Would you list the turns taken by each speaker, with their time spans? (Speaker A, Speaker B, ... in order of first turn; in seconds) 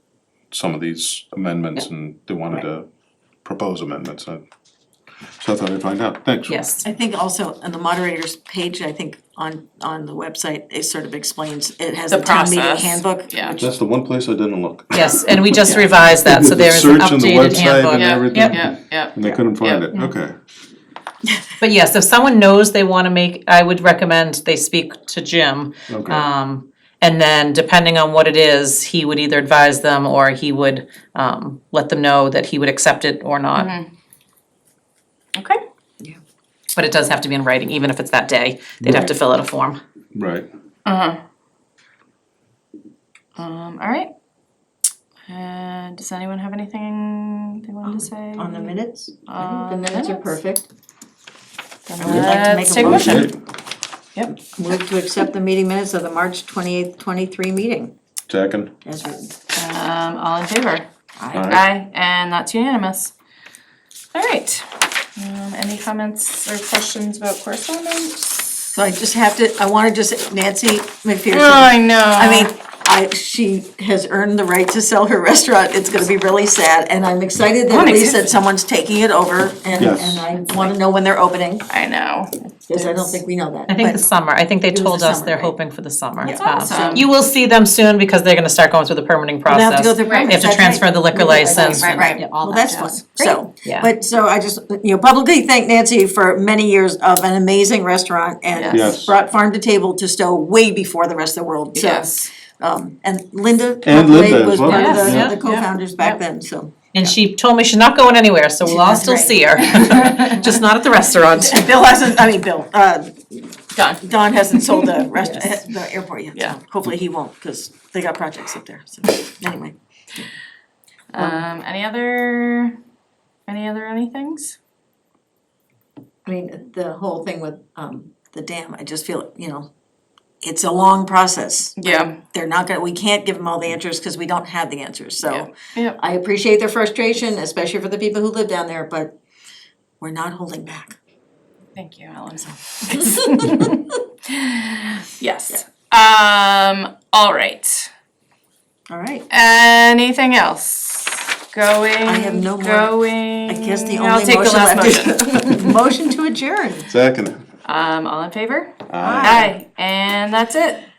Speaker A: 0.5-2.9, 3.4-4.4, 5.4-6.6, 13.6-15.2, 16.2-20.3, 25.9-26.3, 38.8-39.1, 40.1-40.5, 52.8-53.3, 58.3-58.7, 61.3-61.6, 79.8-80.3, 98.7-99.1, 103.8-105.3, 156.9-157.4, 158.9-159.4
Speaker B: 6.5-6.8, 14.9-18.6, 21.6-33.7, 36.7-39.8, 83.7-92.9, 104.9-105.3, 106.9-111.6
Speaker C: 6.8-13.7, 47.9-50.6, 52.0-53.3, 54.3-57.9, 58.8-59.3, 61.2-61.5, 68.7-81.7, 82.7-84.0, 84.7-85.5, 86.2-87.1, 89.5-106.9, 111.4-113.5, 114.0-120.2, 126.2-129.7, 130.4-139.1, 140.0-141.0, 148.9-149.3, 152.0-152.9, 153.4-156.9, 159.0-159.5
Speaker D: 12.1-13.6, 17.9-19.9, 33.5-33.9, 35.3-35.6, 40.9-41.2, 43.4-44.1, 45.3-48.7, 49.3-50.3, 51.9-53.3, 59.5-60.9, 61.5-63.1, 64.1-68.4, 71.3-72.5, 77.7-78.4, 81.7-83.2, 86.2-87.1, 90.0-90.4, 91.3-93.4, 98.5-98.9, 101.7-102.3, 104.6-106.2, 108.9-110.6, 113.7-114.0, 114.5-115.0, 121.1-122.8, 123.5-124.5, 131.8-132.2, 135.2-136.0, 141.7-147.9, 149.3-155.8, 157.6-160.8